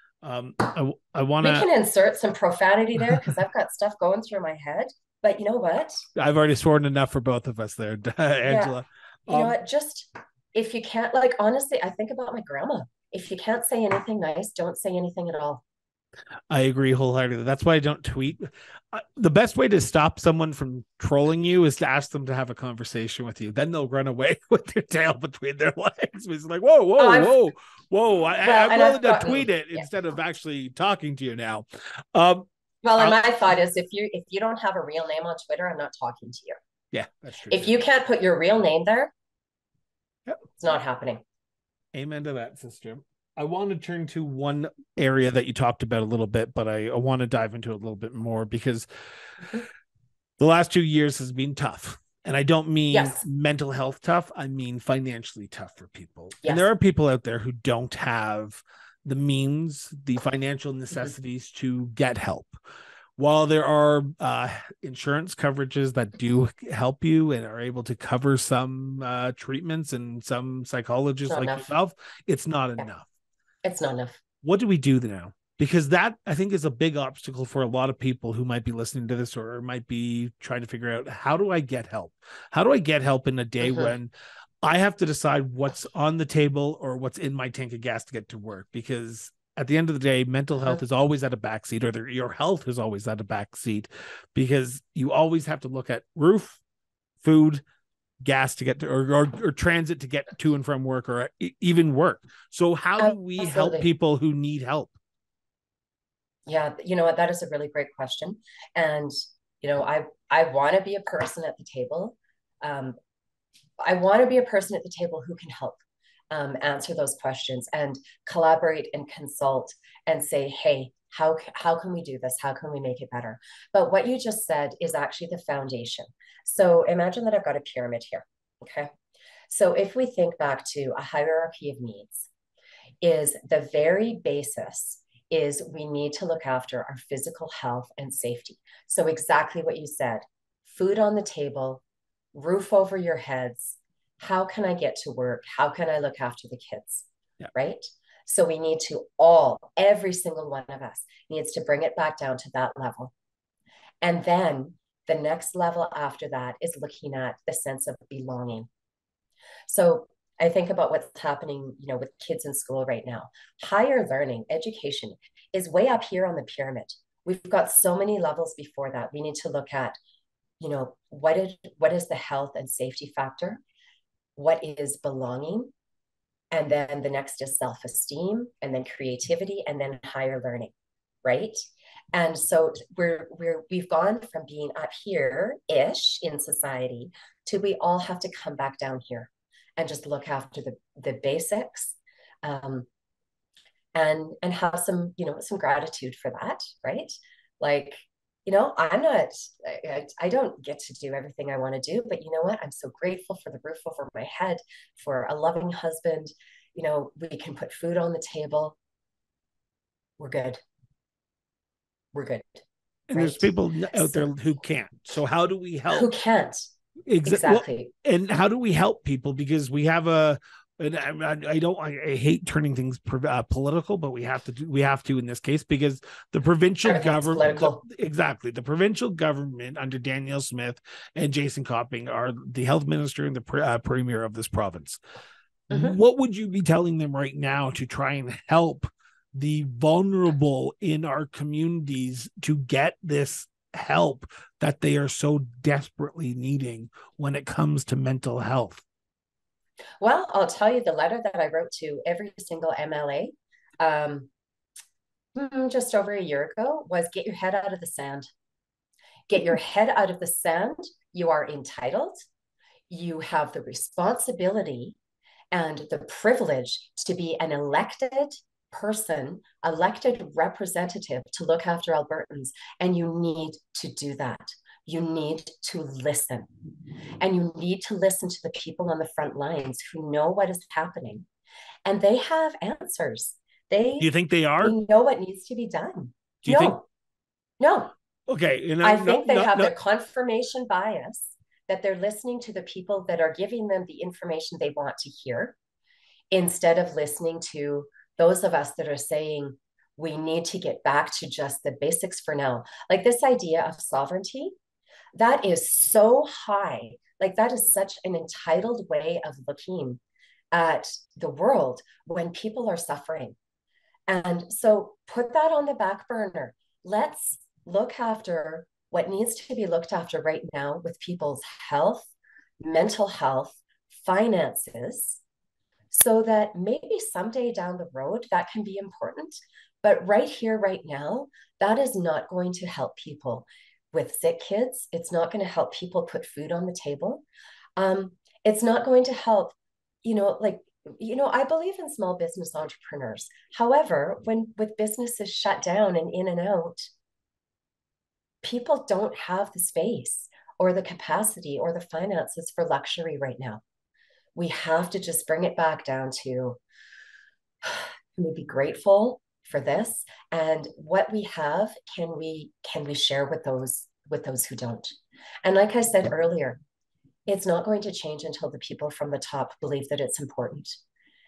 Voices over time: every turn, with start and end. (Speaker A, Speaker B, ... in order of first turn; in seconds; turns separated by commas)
Speaker A: 0.2-1.7, Speaker B: 1.4-6.0, Speaker A: 6.2-9.6, Speaker B: 8.4-8.8, Speaker B: 9.3-15.6, Speaker A: 16.5-33.2, Speaker B: 27.0-27.4, Speaker B: 28.4-29.9, Speaker B: 32.8-36.6, Speaker A: 36.9-37.7, Speaker B: 37.5-39.1, Speaker B: 40.6-41.2, Speaker A: 41.9-48.9, Speaker A: 50.4-62.5, Speaker B: 52.9-53.2, Speaker B: 56.4-56.7, Speaker A: 63.2-73.1, Speaker B: 71.3-71.7, Speaker B: 73.6-74.2, Speaker A: 74.4-84.1, Speaker B: 83.6-83.9, Speaker A: 84.6-96.6, Speaker A: 97.2-97.6, Speaker A: 98.2-105.0, Speaker B: 103.0-103.9, Speaker B: 106.5-113.0, Speaker B: 113.8-128.9, Speaker B: 129.5-132.3, Speaker B: 133.0-141.8, Speaker B: 142.3-153.1, Speaker B: 154.0-158.7, Speaker B: 159.7-170.0, Speaker B: 170.6-173.6, Speaker B: 174.4-175.7, Speaker B: 176.5-180.7, Speaker B: 181.2-181.6, Speaker B: 182.1-192.9, Speaker B: 193.9-208.8, Speaker B: 210.2-210.6, Speaker B: 212.1-214.3, Speaker A: 213.1-216.1, Speaker B: 215.9-216.7, Speaker A: 217.1-235.0, Speaker B: 217.2-217.9, Speaker B: 226.8-227.8, Speaker A: 235.7-248.8, Speaker B: 235.7-236.0, Speaker B: 250.0-254.3, Speaker B: 255.3-258.3, Speaker B: 259.3-262.2, Speaker B: 262.9-265.0, Speaker B: 265.5-276.5, Speaker B: 277.2-281.3, Speaker B: 281.9-284.1, Speaker A: 284.0-284.8, Speaker B: 284.6-286.9, Speaker A: 286.4-286.8, Speaker B: 287.6-287.9, Speaker A: 288.3-289.7, Speaker B: 288.8-295.6, Speaker B: 296.3-304.6, Speaker B: 305.2-310.0, Speaker B: 310.5-313.4, Speaker B: 314.1-325.2, Speaker B: 325.9-337.2, Speaker B: 337.8-346.9, Speaker B: 348.4-353.6, Speaker B: 354.4-356.6, Speaker B: 357.6-364.9, Speaker B: 365.4-366.6, Speaker B: 367.3-370.8